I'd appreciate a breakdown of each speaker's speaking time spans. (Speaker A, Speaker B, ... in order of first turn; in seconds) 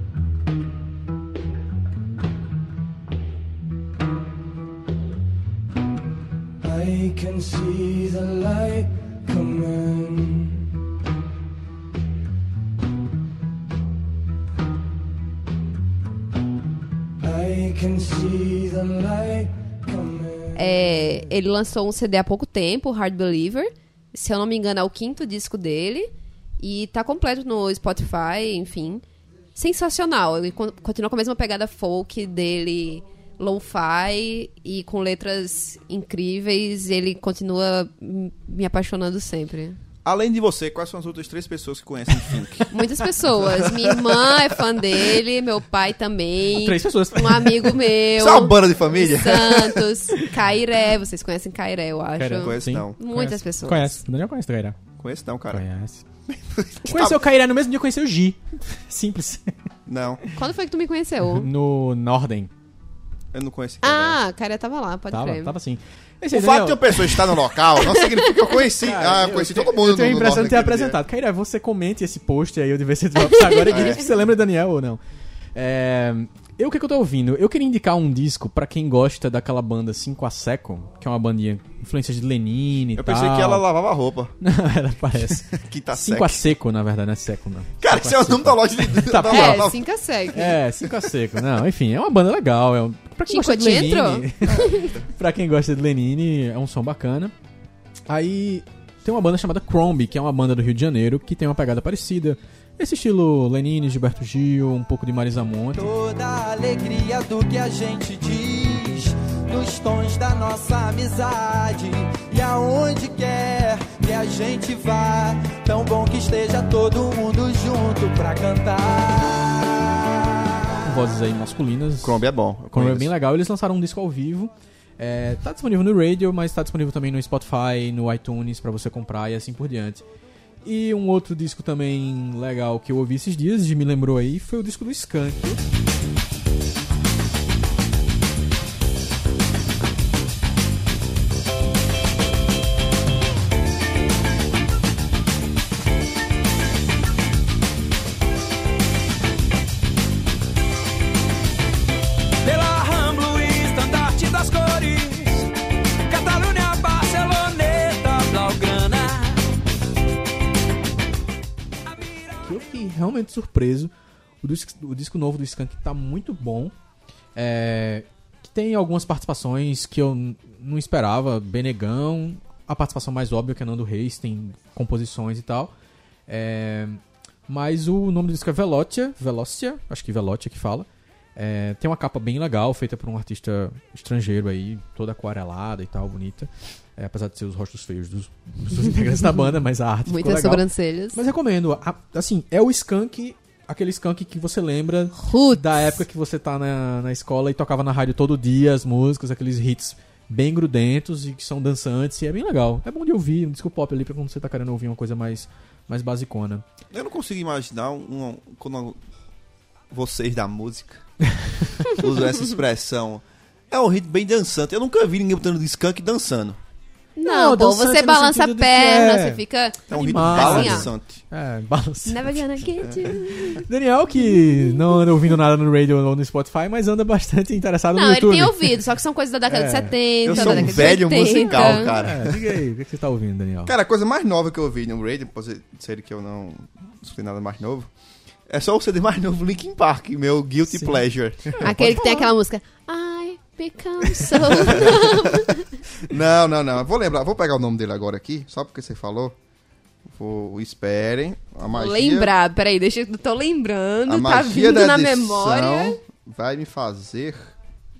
Speaker A: 6.6-10.6, 17.2-20.5
Speaker B: 20.5-29.0, 29.5-39.8, 42.7-54.0, 60.4-61.5, 63.8-65.5, 67.7-68.5, 73.4-73.9, 89.2-90.6, 93.3-94.9, 190.1-191.2, 195.2-195.9, 217.2-220.9, 222.1-223.7, 224.2-225.1, 227.9-232.0, 241.6-245.8, 251.7-256.0
Speaker C: 40.0-44.7, 48.2-49.9, 52.4-53.0, 55.0-55.6, 56.3-57.2, 59.9-60.2, 63.3-64.2, 66.3-71.0, 73.7-74.0, 83.0-84.3, 85.3-86.5, 87.8-89.8, 122.0-123.1, 206.9-209.0, 209.9-211.0, 211.8-216.6, 219.9-221.2, 222.8-223.1, 230.2-232.4, 233.7-237.9, 238.5-241.9, 244.7-245.4, 246.0-249.3, 250.1-252.3, 254.1-257.5
Speaker D: 46.5-47.8, 52.2-54.8, 55.5-56.0, 56.9-59.5, 61.2-62.5, 65.1-67.3, 68.8-75.0, 75.5-83.6, 84.4-89.7, 90.3-97.3, 98.1-105.9, 120.8-130.0, 130.6-135.6, 162.3-166.7, 167.3-175.7, 176.3-206.6, 217.2-219.4, 219.9-222.4, 223.0-228.7, 229.5-233.7, 240.7-240.9, 241.5-242.3
Speaker E: 105.8-119.4, 152.4-155.5, 156.0-159.6